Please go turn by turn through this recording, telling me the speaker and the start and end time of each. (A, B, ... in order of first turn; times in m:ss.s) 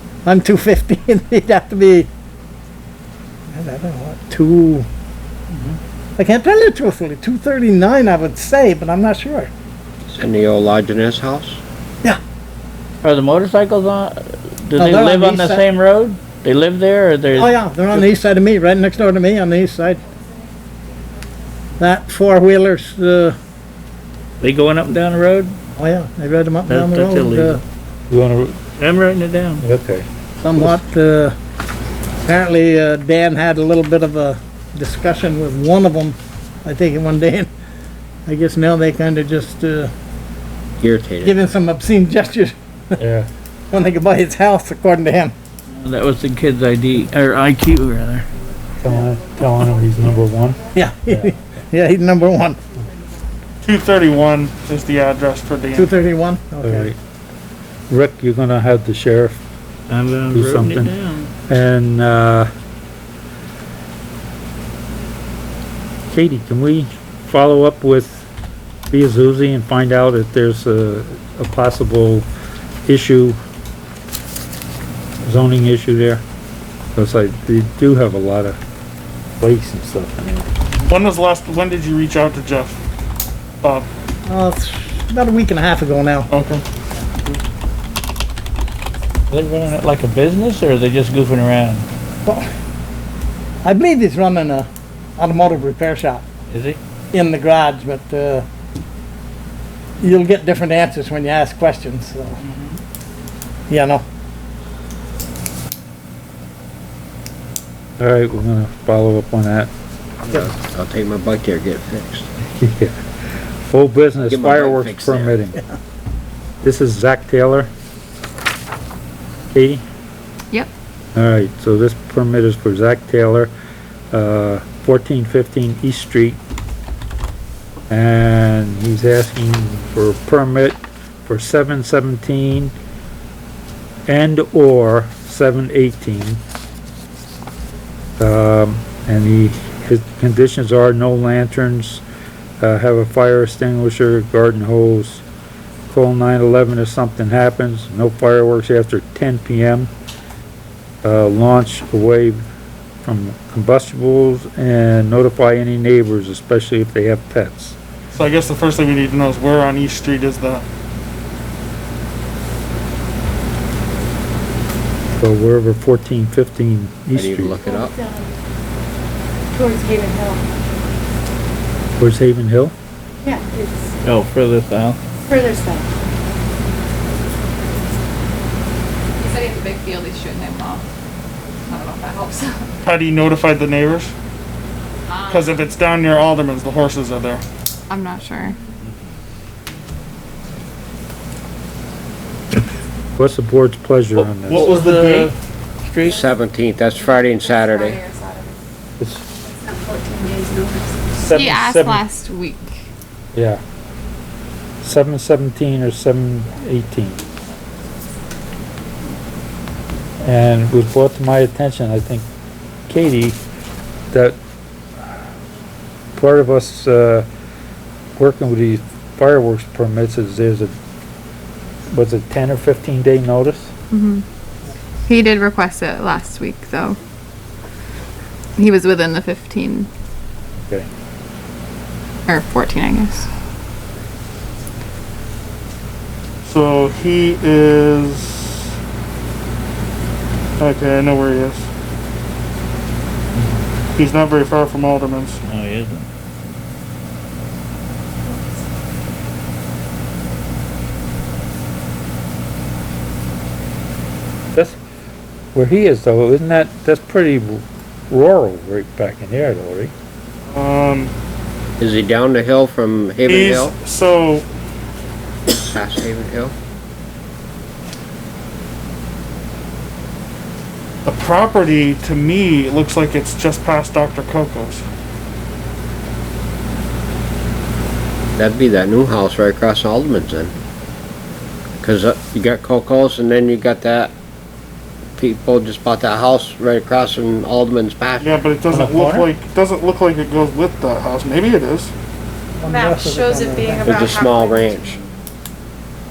0:00.2-0:02.1 A
0:03.5-0:04.9 A
0:06.2-0:09.5 A
0:10.1-0:11.6 B
0:13.0-0:17.5 C
0:14.8-0:15.6 A
0:17.3-0:20.0 A
0:21.8-0:23.4 A
0:24.4-0:25.6 C
0:25.8-0:27.6 A
0:26.7-0:27.6 C
0:28.1-0:28.6 D
0:28.8-0:29.6 C
0:29.6-0:30.1 D
0:30.4-0:31.3 A
0:32.2-0:37.5 A
0:38.2-0:39.9 A
0:40.8-0:41.3 B
0:41.2-0:43.0 A
0:43.0-0:43.3 D
0:43.7-0:45.3 A
0:45.7-0:48.3 C
0:48.8-0:51.3 D
0:50.7-0:52.6 A
0:53.6-0:55.9 E
0:55.7-0:56.9 A
0:56.6-0:57.0 D
0:57.9-0:59.4 D
0:59.9-1:01.3 C
1:00.3-1:00.9 D
1:01.5-1:02.5 D
1:06.1-1:08.3 D
1:08.9-1:12.2 D
1:12.8-1:13.4 D
1:15.2-1:16.2 D
1:16.9-1:18.6 D
1:19.4-1:20.5 D
1:20.8-1:22.8 E
1:23.6-1:23.9 E
1:24.2-1:26.3 A
1:26.3-1:26.6 E
1:29.3-1:31.9 C
1:33.6-1:36.2 A
1:36.5-1:36.8 C
1:37.1-1:38.4 A
1:40.0-1:42.4 A
1:43.7-1:44.0 A
1:48.0-1:49.7 D
1:50.3-1:52.3 B
1:52.6-1:53.0 D
1:53.6-1:55.6 D
1:54.2-1:55.4 B
1:56.6-1:57.7 D
1:59.5-1:59.8 D
2:01.1-2:03.5 D
2:04.1-2:06.4 D
2:07.9-2:12.7 D
2:14.1-2:16.4 D
2:18.2-2:22.0 D
2:22.6-2:25.2 D
2:25.9-2:29.9 D
2:31.0-2:32.4 D
2:33.0-2:37.8 D
2:38.1-2:40.6 E
2:45.2-2:47.6 D
2:47.1-2:48.0 B
2:47.6-2:48.3 F
2:49.5-2:50.4 F
2:52.0-2:52.7 D
2:53.2-2:53.9 F
2:54.0-2:55.0 C
2:55.3-2:55.9 F
2:59.2-3:00.8 G
3:01.7-3:02.7 G
3:02.8-3:04.1 E
3:05.1-3:05.6 G
3:05.3-3:07.4 E
3:07.9-3:08.6 G
3:13.2-3:14.7 D
3:14.2-3:15.4 E
3:14.5-3:15.3 C
3:15.8-3:16.2 C
3:16.0-3:18.0 B
3:17.4-3:18.4 G
3:19.0-3:19.2 D
3:19.6-3:21.0 F
3:21.2-3:22.0 D
3:21.3-3:22.8 G
3:23.3-3:23.6 D
3:24.8-3:27.2 D
3:30.2-3:32.2 D
3:32.9-3:33.4 D
3:34.1-3:34.4 D
3:36.1-3:37.3 D
3:38.2-3:40.7 D
3:41.9-3:43.7 D
3:43.9-3:44.2 G
3:45.0-3:47.0 G
3:48.6-3:49.9 G
3:52.3-3:53.3 G
3:56.4-3:58.7 E
4:00.6-4:01.7 E
4:03.9-4:05.4 E
4:05.4-4:06.1 C
4:15.5-4:19.9 D
4:20.5-4:21.1 E
4:21.8-4:23.7 B
4:23.3-4:24.4 E
4:25.5-4:26.5 B
4:31.0-4:34.8 E
4:38.3-4:40.5 B
4:41.8-4:44.1 B
4:45.2-4:48.4 B
4:48.2-4:51.9 E
4:48.8-4:49.2 A
4:48.9-4:49.2 C
4:52.6-4:54.4 A
4:52.7-4:54.8 F
4:53.8-4:55.0 B